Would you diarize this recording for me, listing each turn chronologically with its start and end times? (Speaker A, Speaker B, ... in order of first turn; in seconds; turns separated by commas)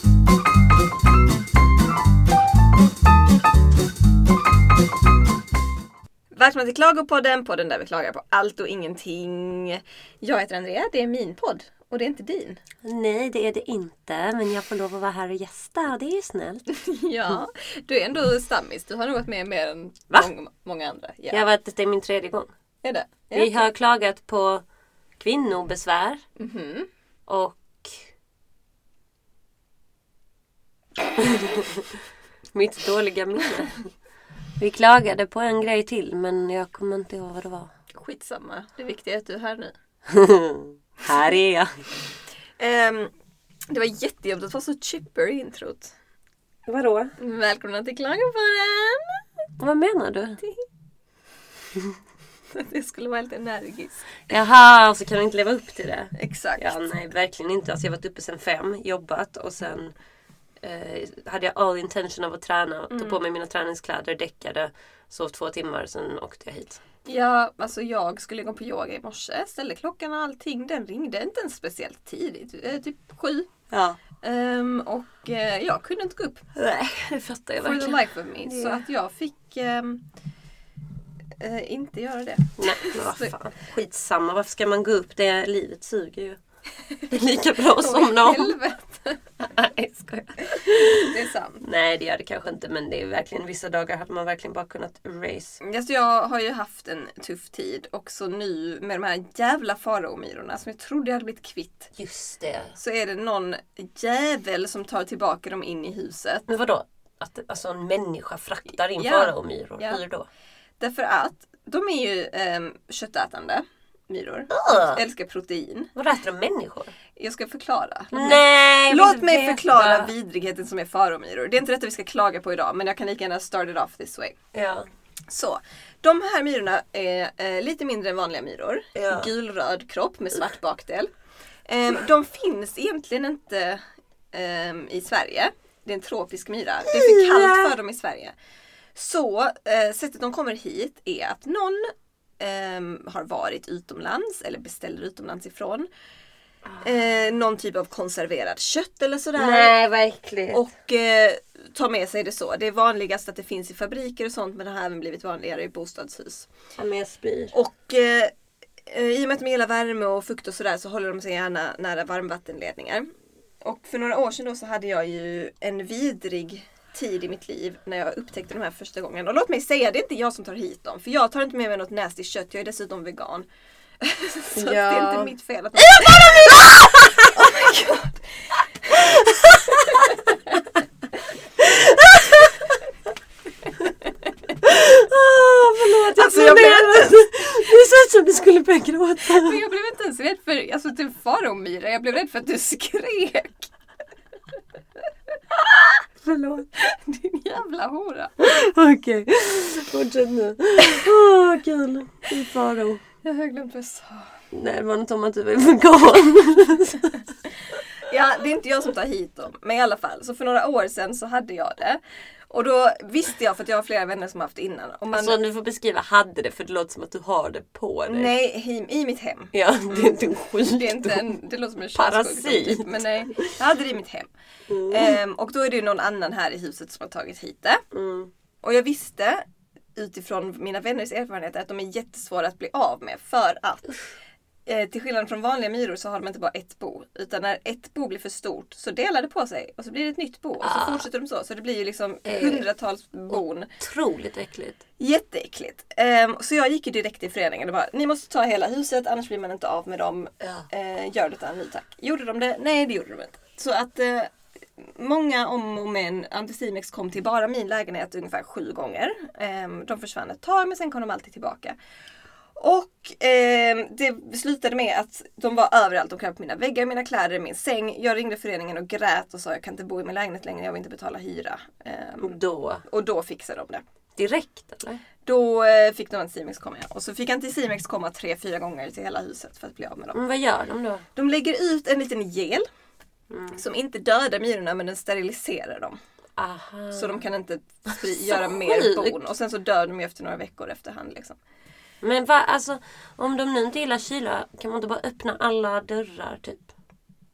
Speaker A: 6.3-12.6, Speaker B: 12.8-16.6, Speaker A: 16.7-21.4, Speaker B: 21.3-22.5, Speaker A: 22.8-23.7, Speaker B: 23.3-24.6, Speaker B: 25.2-26.2, Speaker A: 26.4-26.9, Speaker B: 27.3-28.0, Speaker B: 31.2-31.9, Speaker B: 32.5-33.8, Speaker B: 34.6-37.7, Speaker A: 37.9-39.7, Speaker B: 40.1-41.7, Speaker A: 42.6-43.1, Speaker A: 43.7-45.9, Speaker B: 46.6-47.1, Speaker A: 47.2-49.2, Speaker B: 49.6-50.4, Speaker A: 52.5-54.1, Speaker B: 54.3-59.9, Speaker A: 56.1-56.8, Speaker B: 60.6-66.8, Speaker A: 62.9-63.2, Speaker A: 67.0-73.5, Speaker B: 73.7-74.0, Speaker A: 74.2-76.5, Speaker B: 76.5-78.8, Speaker A: 77.6-80.0, Speaker A: 81.4-83.3, Speaker B: 82.6-86.4, Speaker B: 87.1-88.5, Speaker A: 87.7-89.2, Speaker B: 89.4-95.6, Speaker A: 90.6-91.6, Speaker A: 95.6-101.9, Speaker B: 101.9-102.8, Speaker A: 102.8-106.5, Speaker B: 106.5-110.3, Speaker A: 108.9-110.0, Speaker A: 110.8-115.9, Speaker B: 114.5-115.0, Speaker B: 115.9-116.9, Speaker A: 117.2-124.3, Speaker B: 118.1-120.1, Speaker B: 124.5-124.9, Speaker A: 125.3-131.1, Speaker B: 128.9-129.3, Speaker A: 131.7-138.3, Speaker B: 136.9-137.7, Speaker A: 138.9-145.9, Speaker B: 146.7-146.9, Speaker A: 146.8-149.7, Speaker B: 149.4-150.6, Speaker A: 150.5-156.5, Speaker B: 156.8-157.5, Speaker A: 157.5-158.3, Speaker A: 158.9-163.1, Speaker A: 163.6-173.4, Speaker A: 174.0-178.2, Speaker B: 174.5-177.5, Speaker B: 178.9-180.1, Speaker A: 179.8-180.3, Speaker B: 181.6-182.6, Speaker B: 184.6-189.6, Speaker A: 186.1-187.1, Speaker A: 189.2-193.7, Speaker B: 196.2-196.7, Speaker A: 196.8-198.4, Speaker B: 198.4-203.0, Speaker A: 203.2-204.3, Speaker B: 204.5-207.2, Speaker A: 207.9-215.3, Speaker B: 215.1-218.3, Speaker A: 218.1-224.3, Speaker B: 219.5-221.3, Speaker B: 221.9-223.5, Speaker B: 224.7-225.2, Speaker A: 224.8-227.8, Speaker B: 227.9-228.3, Speaker A: 228.6-229.4, Speaker A: 229.9-233.9, Speaker A: 234.7-243.7, Speaker B: 240.6-241.0, Speaker B: 242.2-242.6, Speaker B: 243.3-244.8, Speaker A: 245.0-261.8, Speaker B: 250.4-250.7, Speaker A: 262.6-273.8, Speaker B: 272.2-272.8, Speaker B: 274.1-275.0, Speaker A: 275.2-280.2, Speaker B: 280.1-281.0, Speaker A: 281.1-282.7, Speaker B: 283.3-283.6, Speaker A: 283.5-286.0, Speaker B: 286.4-287.2, Speaker A: 286.9-291.4, Speaker B: 288.0-289.2, Speaker B: 292.0-296.7